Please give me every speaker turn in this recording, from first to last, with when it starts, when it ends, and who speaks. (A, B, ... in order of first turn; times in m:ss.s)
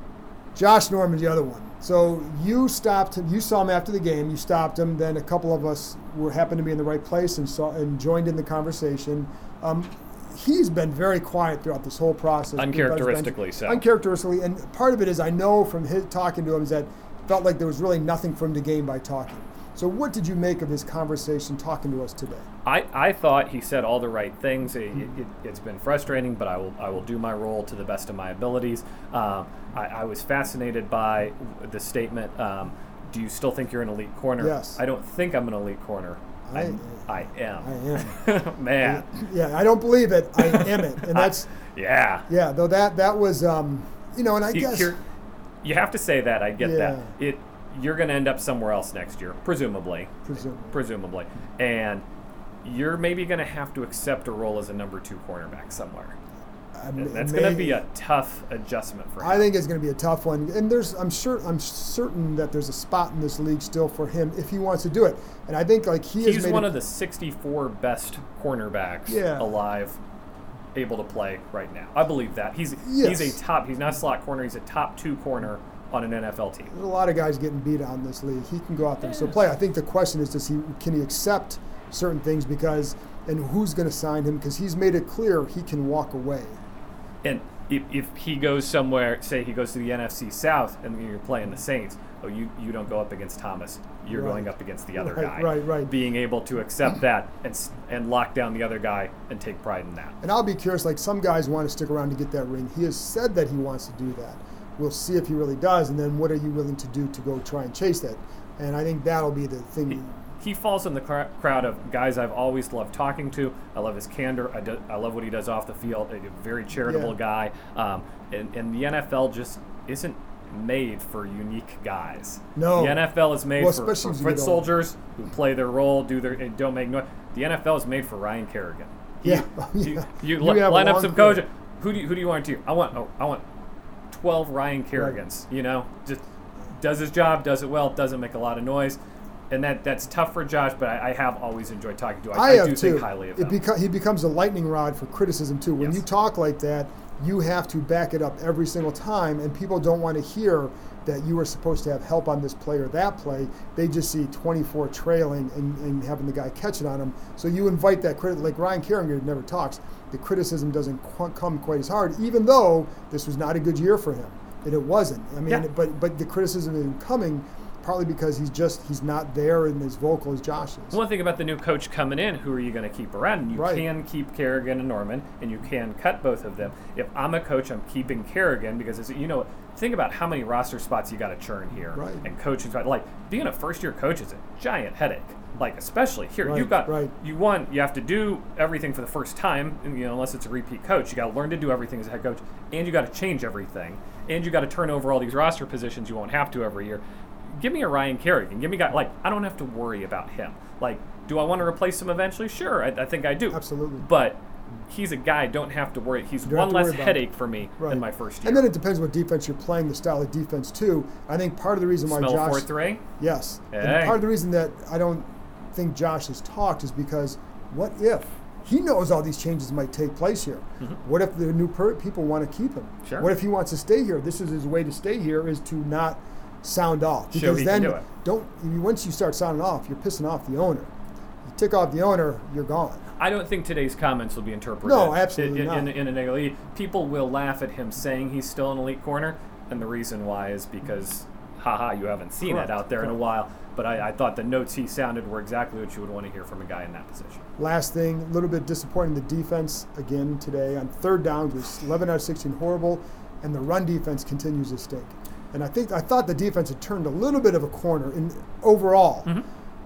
0:00.6-0:22.4 A
0:12.6-0:13.8 B
0:22.6-0:39.1 B
0:34.4-0:34.8 A
0:36.5-0:38.2 A
0:38.8-0:41.5 A
0:40.4-0:42.3 B
0:42.3-0:45.0 A
0:44.5-0:45.0 B
0:45.6-0:52.0 B
0:46.6-0:47.1 A
0:50.3-0:50.8 A
0:52.6-0:56.2 B
0:56.8-0:57.8 A
0:57.0-0:59.4 B
0:59.2-1:06.8 A
1:06.2-1:10.0 B
1:09.1-1:09.6 A
1:10.8-1:16.7 B
1:12.8-1:13.4 A
1:16.7-1:26.6 A
1:27.2-1:40.2 B
1:34.1-1:35.9 A
1:40.2-1:50.1 A
1:49.9-2:13.4 B
1:56.8-1:57.2 A
2:02.6-2:04.7 A
2:09.2-2:11.4 A
2:14.1-2:16.2 B
2:16.8-2:19.0 B
2:19.5-2:23.6 B
2:22.3-2:51.0 A
2:25.8-2:26.0 B
2:50.9-3:17.0 B
2:53.5-2:53.9 A
3:01.9-3:02.3 A
3:06.4-3:07.1 A
3:17.6-3:28.7 B
3:23.5-3:24.1 A
3:26.5-3:32.7 A
3:32.1-3:33.0 B
3:33.2-3:50.9 A
3:33.7-3:34.2 B
3:43.0-3:43.3 B
3:47.3-3:48.0 B
3:51.5-3:53.0 A
3:53.2-4:07.4 B
3:54.8-3:55.9 A
4:02.4-4:03.2 A
4:07.6-4:19.3 A